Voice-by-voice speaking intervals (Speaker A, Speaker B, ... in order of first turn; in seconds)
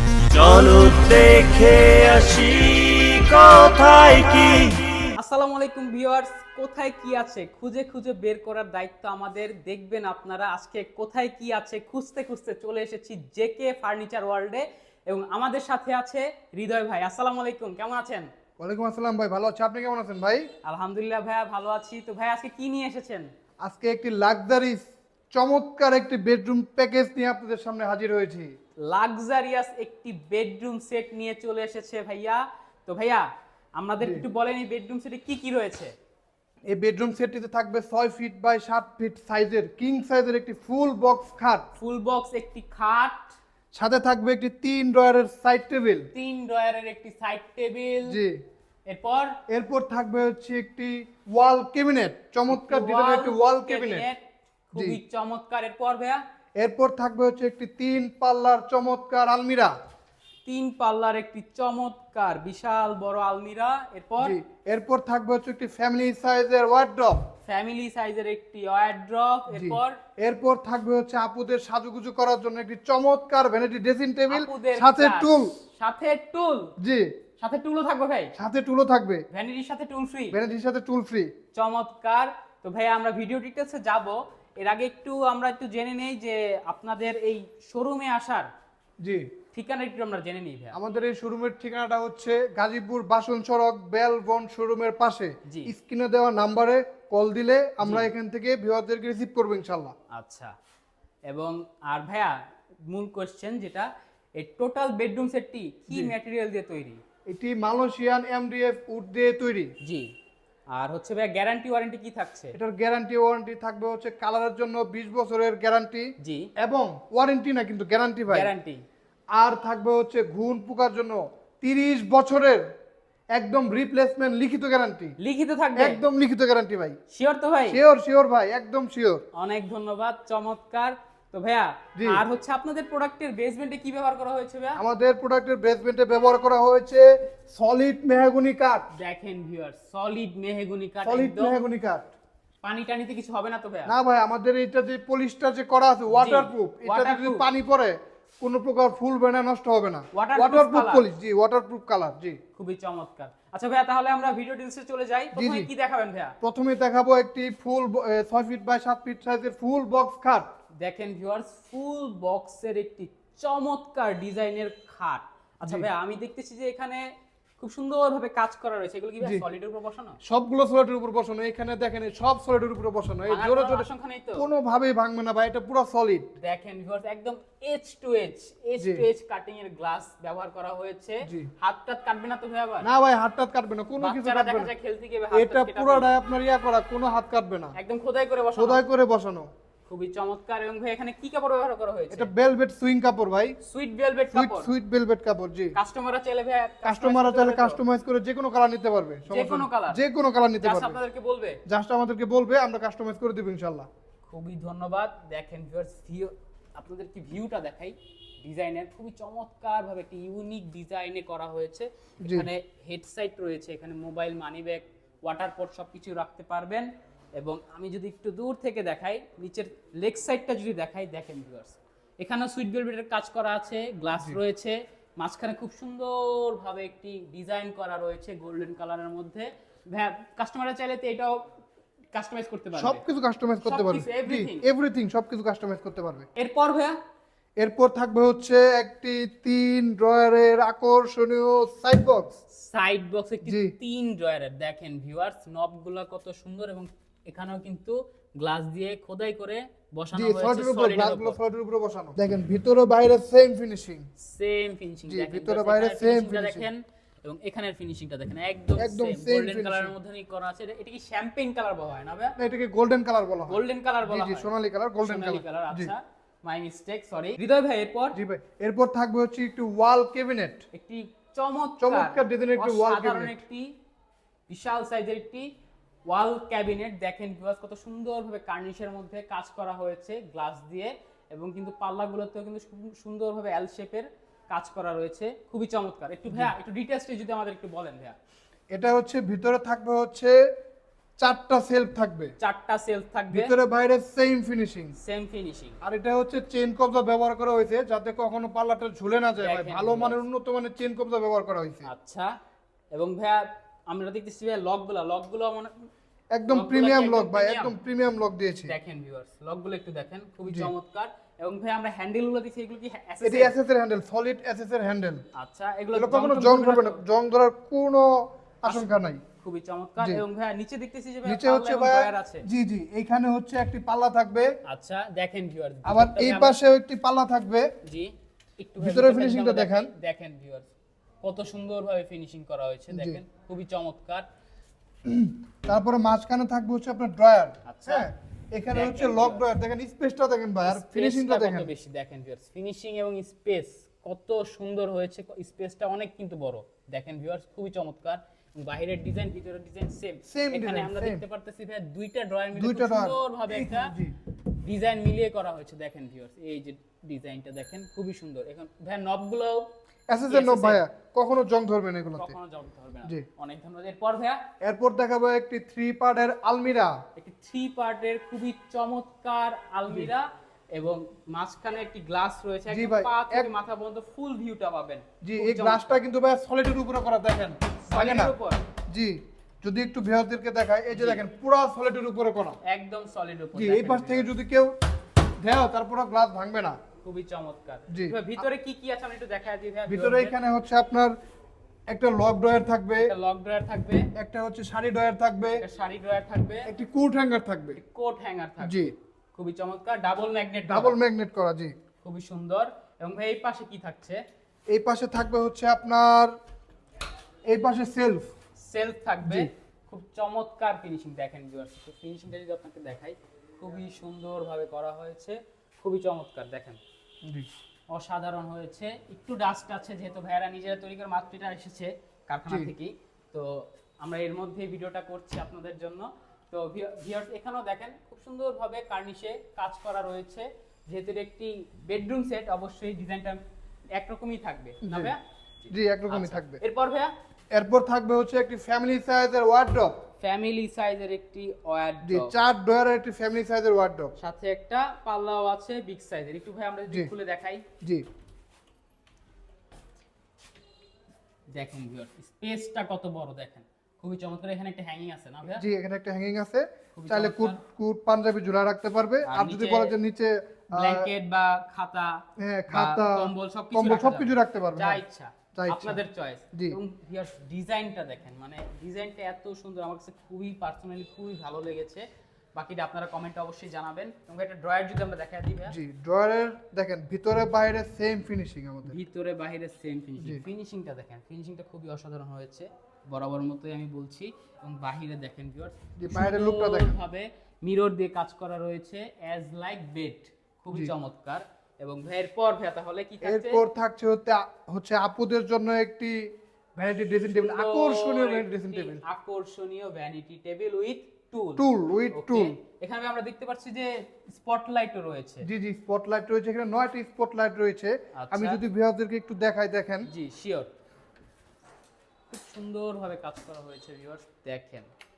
Speaker A: 0.3-4.7
Speaker B: 5.1-18.3, 20.6-23.3, 28.9-33.2, 33.8-35.9, 41.8-43.4, 46.1-48.2, 48.9-49.4, 52.5-56.2, 60.5-64.4, 67.5-70.0, 74.3-76.7, 77.4-78.3, 79.3-80.4, 81.5-88.5, 89.5-90.8, 97.8-98.1, 100.1-100.5, 101.3-102.3, 102.9-107.0, 109.8-110.1, 110.7-112.5, 116.2-116.5, 118.3-118.8, 125.2-126.0, 127.1-127.8, 129.3-134.8, 138.9-141.6, 142.6-143.9, 146.1-147.4, 150.1-151.1, 152.6-156.3, 160.8-167.1, 167.6-170.2, 173.3-174.5, 176.4-182.9, 184.0-186.1, 187.7-188.8, 189.9-192.3, 193.6-194.7, 195.7-197.8, 199.3-200.0, 200.6-201.6, 204.3-231.5, 232.1-233.1, 233.6-234.7, 236.3-236.9, 242.5-251.4, 254.2-262.3, 263.5-264.5, 265.0-268.2, 270.7-273.7, 274.5-275.5, 276.1-288.1, 292.4-293.5, 295.0-295.8, 299.4-300.2, 301.8-302.3, 302.9-305.7, 306.5-307.8, 308.7-313.5, 315.3-317.0, 319.4-322.4, 324.6-326.6, 327.8-330.7, 331.2-334.2, 337.6-338.1, 338.7-339.4, 340.6-353.9, 354.6-359.7, 360.3-360.8, 362.2-364.4, 367.1-376.0, 377.9-378.6, 380.9-381.2, 382.6-384.3, 387.0-390.4, 393.0-394.1, 395.6-396.7, 397.7-401.0, 402.0-404.2, 408.6-416.8, 417.9-433.4, 433.9-437.1, 440.2-442.3, 444.2-447.6, 451.5-455.6, 456.9-457.6, 459.2-459.9, 460.7-475.8, 478.9-493.6, 497.3-505.4, 508.1-508.6, 510.1-510.7, 512.3-514.9
Speaker C: 18.6-20.4, 23.6-28.5, 36.7-41.6, 43.7-46.1, 48.0-48.4, 49.5-54.0, 56.6-59.7, 64.2-67.2, 69.5-75.5, 76.8-77.1, 78.3-79.2, 80.3-81.3, 89.0-89.3, 90.7-99.9, 107.3-109.7, 112.5-118.5, 119.3-122.6, 123.4-125.1, 125.8-127.0, 127.7-129.2, 132.0-132.2, 134.8-138.8, 141.0-142.1, 143.9-152.4, 155.3-155.7, 156.4-160.5, 170.2-176.3, 178.8-179.0, 181.2-181.5, 182.8-184.7, 185.3-187.7, 188.6-189.5, 192.1-193.6, 194.3-195.7, 196.8-201.0, 201.7-203.9, 212.2-212.5, 232.8-236.3, 237.6-242.4, 243.4-243.7, 250.1-254.1, 255.1-256.6, 258.8-259.9, 262.4-265.9, 268.1-270.6, 271.8-273.3, 288.7-290.3, 291.2-292.3, 293.3-294.9, 295.8-301.9, 306.3-308.7, 313.2-315.2, 315.9-319.2, 320.0-320.2, 321.2-324.5, 325.9-327.7, 328.8-329.9, 332.9-333.2, 335.1-341.7, 350.3-351.2, 352.5-354.1, 360.1-362.3, 364.6-366.9, 372.7-373.5, 375.2-378.3, 378.9-382.6, 383.5-384.7, 385.4-386.8, 387.9-388.2, 389.9-391.1, 391.9-393.1, 394.1-395.6, 396.6-397.8, 398.6-398.9, 400.7-401.7, 404.7-406.3, 407.5-408.3, 434.8-435.1, 435.7-436.6, 437.5-439.9, 442.0-444.1, 455.5-461.1, 462.4-465.0, 465.5-466.0, 466.5-466.8, 475.6-479.0, 486.0-486.9, 493.2-499.0, 501.6-502.6, 505.4-510.1